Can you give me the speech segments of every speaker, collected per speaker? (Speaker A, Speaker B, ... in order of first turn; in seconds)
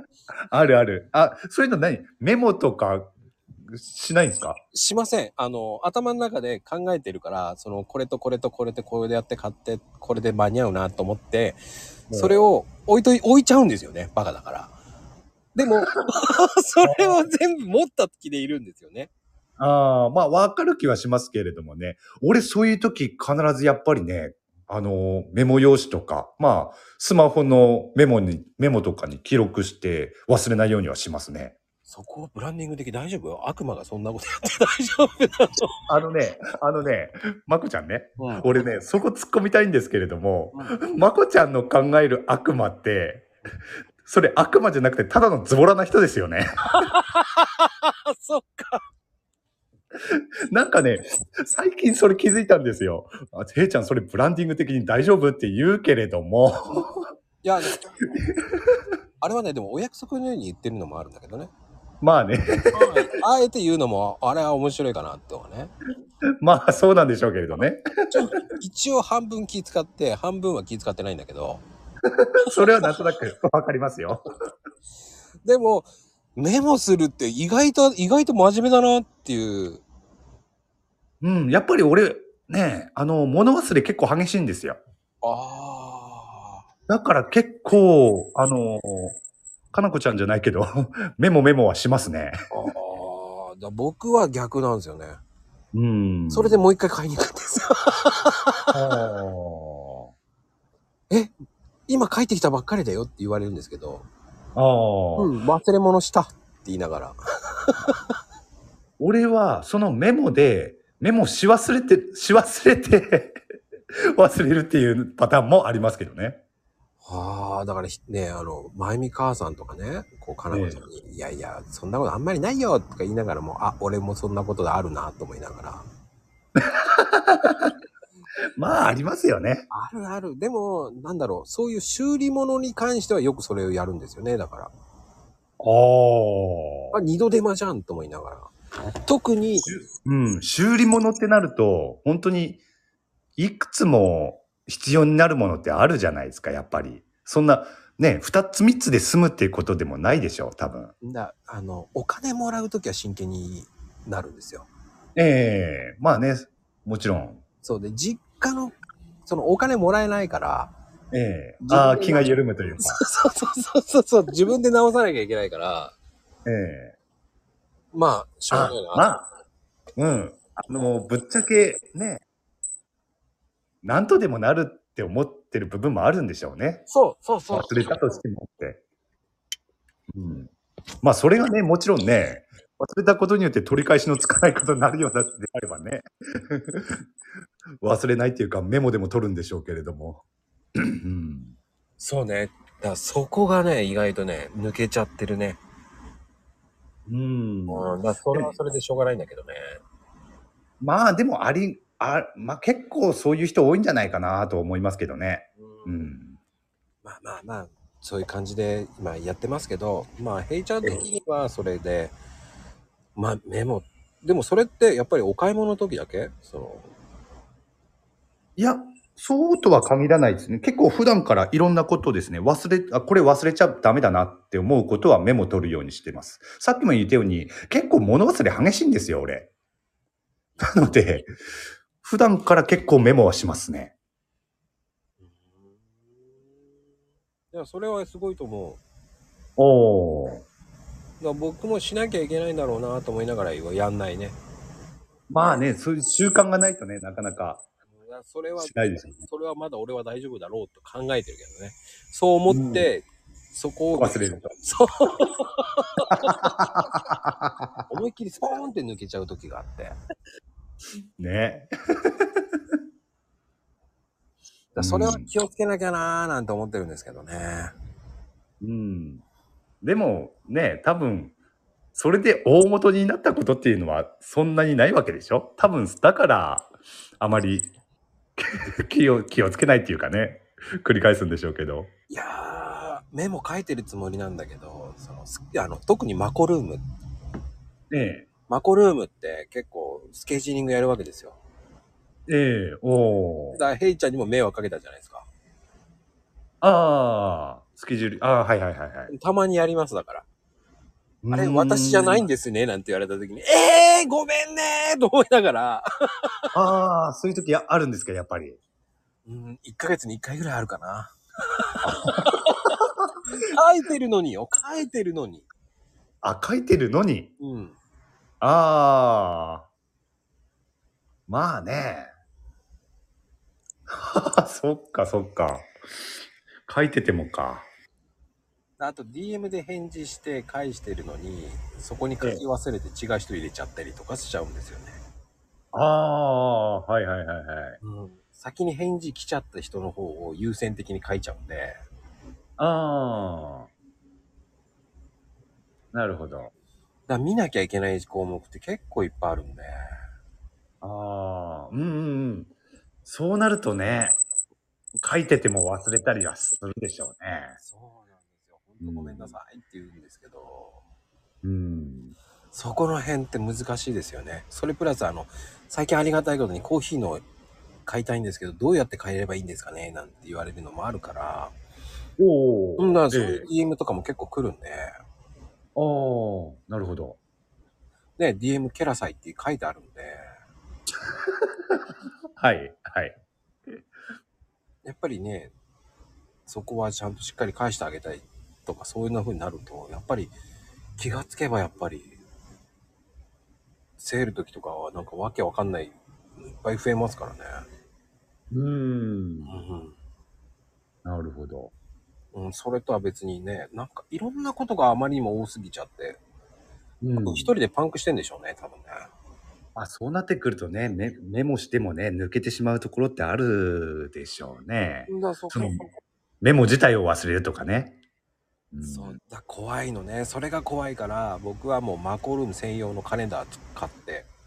Speaker A: 0.5-4.6, 12.1-12.4, 16.9-17.2, 19.6-31.5, 35.9-43.3, 44.0-46.5, 50.0-57.0, 58.2-58.8, 62.0-63.1, 66.4-68.4, 72.2-74.2, 81.2-84.8, 86.9-89.2, 89.7-92.3, 95.7-96.6, 98.7-100.1, 104.5-105.3, 109.0-113.4, 114.1-116.4, 120.5-120.8, 126.5-127.7, 128.6-129.7, 135.6-136.9, 139.7-142.6, 143.4-150.9, 155.2-157.4, 161.1-163.0, 166.4-166.9, 168.5-169.2, 170.0-172.2, 173.8-176.8, 177.5-178.8, 180.1-180.5, 181.0-187.0, 187.8-190.2, 190.8-191.6, 197.1-198.7, 200.8-206.4, 218.6-229.5, 230.6-231.3, 232.0-233.9, 239.6-240.4, 245.3-247.6, 248.6-249.2, 252.5-252.9, 254.0-254.5, 256.2-257.8, 261.2-262.3, 264.8-265.3, 268.6-269.2, 269.8-271.3, 271.9-277.7, 278.4-281.9, 287.9-288.2, 292.3-293.6, 296.6-299.1, 301.2-302.3, 306.5-308.6, 311.8-312.4, 316.2-317.3, 318.4-319.7, 321.3-322.1, 323.9-326.1, 326.6-327.7, 335.7-337.8, 342.6-343.7, 345.9-346.5, 350.8-352.5, 353.1-354.2, 355.0-357.6, 358.8-359.4, 361.4-362.1, 372.2-373.5, 375.8-377.2, 381.3-383.2, 398.5-399.5, 401.0-401.7, 407.0-407.5, 409.7-415.8, 416.4-418.0, 418.7-419.2
Speaker B: 4.7-14.7, 15.5-19.1, 31.9-35.7, 38.2-38.7, 40.5-40.8, 46.7-48.8, 56.7-58.1, 59.2-61.5, 62.7-65.7, 67.5-71.6, 72.4-73.0, 75.4-79.8, 85.2-86.6, 92.5-95.2, 96.3-98.7, 101.9-104.0, 105.2-108.0, 117.0-125.8, 129.7-134.7, 136.9-139.7, 151.0-154.7, 157.6-160.7, 161.6-165.9, 167.9-169.1, 176.9-178.0, 192.0-195.6, 197.7-199.8, 205.6-206.1, 207.0-212.1, 213.2-216.9, 235.2-236.7, 237.5-238.8, 241.2-244.4, 247.9-256.9, 257.9-259.9, 264.7-267.7, 282.1-286.8, 288.5-291.4, 293.5-295.3, 299.1-300.3, 301.3-306.4, 309.2-312.8, 313.3-315.5, 317.4-317.8, 328.8-335.0, 337.8-341.8, 347.1-349.7, 357.6-360.8, 362.5-367.2, 367.9-371.5, 372.8-374.9, 378.2-380.2, 384.8-385.5, 386.5-390.3, 391.0-392.2, 394.0-397.6, 399.5-399.9, 402.3-406.2, 407.2-409.1, 415.1-415.9, 418.8-424.3